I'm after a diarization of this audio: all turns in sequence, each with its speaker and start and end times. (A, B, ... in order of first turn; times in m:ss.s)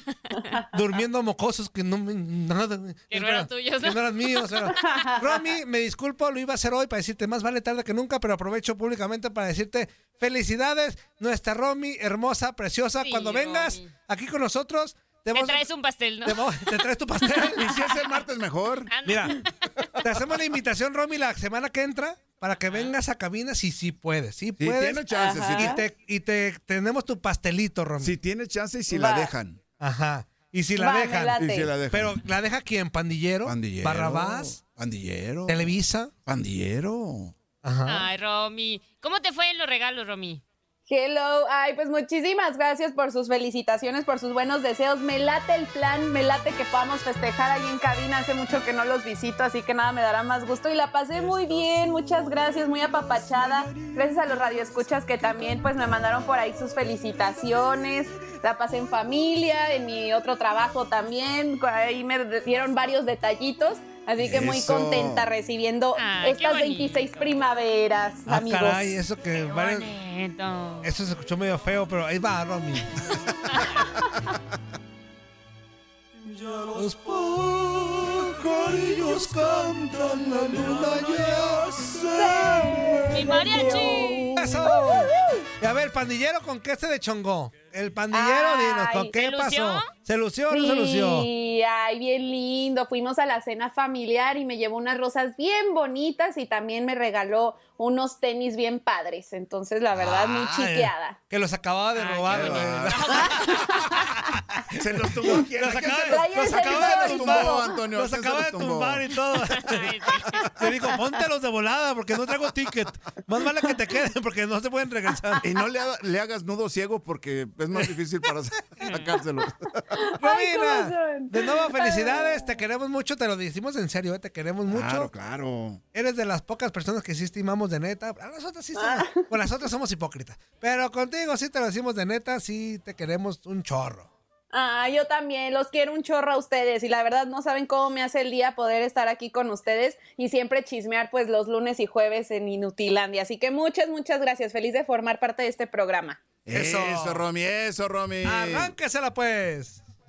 0:00.6-0:15.7 A
0:03.1-0:04.7 B
0:04.8-0:05.2 C
0:13.0-0:13.9 B
0:15.3-0:16.6 B
0:16.2-0:18.0 A
0:17.6-0:18.9 D
0:18.9-0:19.9 B
0:19.0-0:19.4 A
0:20.0-0:28.1 A
0:24.6-0:25.8 D
0:25.1-0:25.8 C
0:28.0-0:29.6 D
0:28.9-0:29.3 C
0:29.8-0:34.6 A
0:30.8-0:31.8 C
0:31.3-0:32.2 D
0:33.4-0:37.4 D
0:35.5-0:36.1 A
0:37.6-0:38.1 A
0:37.8-0:40.4 B
0:40.9-1:08.8 C
1:04.2-1:05.3 D
1:05.9-1:07.1 B
1:08.3-1:09.9 A
1:09.3-1:10.9 B
1:10.8-1:13.0 A
1:13.5-1:13.8 B
1:16.4-1:16.9 E
1:16.7-1:19.9 A
1:18.6-1:19.2 D
1:18.8-1:21.5 E
1:20.0-1:21.1 D
1:20.6-1:21.8 A
1:21.8-1:23.2 D
1:22.1-1:25.3 C
1:23.0-1:24.3 B
1:24.3-1:31.3 A
1:28.1-1:29.1 C
1:29.1-1:29.9 B
1:30.5-1:41.2 C
1:40.0-1:40.2 D
1:40.1-1:55.5 A
1:42.0-1:43.8 B
1:42.2-1:43.8 D
1:44.7-1:49.2 D
1:46.0-1:47.8 C
1:49.5-1:50.6 B
1:55.4-2:00.0 D
1:58.8-1:59.1 B
1:59.9-2:02.6 C
2:00.2-2:05.1 A
2:04.7-2:05.8 D
2:05.9-2:14.1 A
2:08.7-2:09.3 C
2:14.5-2:26.3 C
2:26.4-2:28.7 D
2:26.5-2:27.2 A
2:28.2-2:29.8 A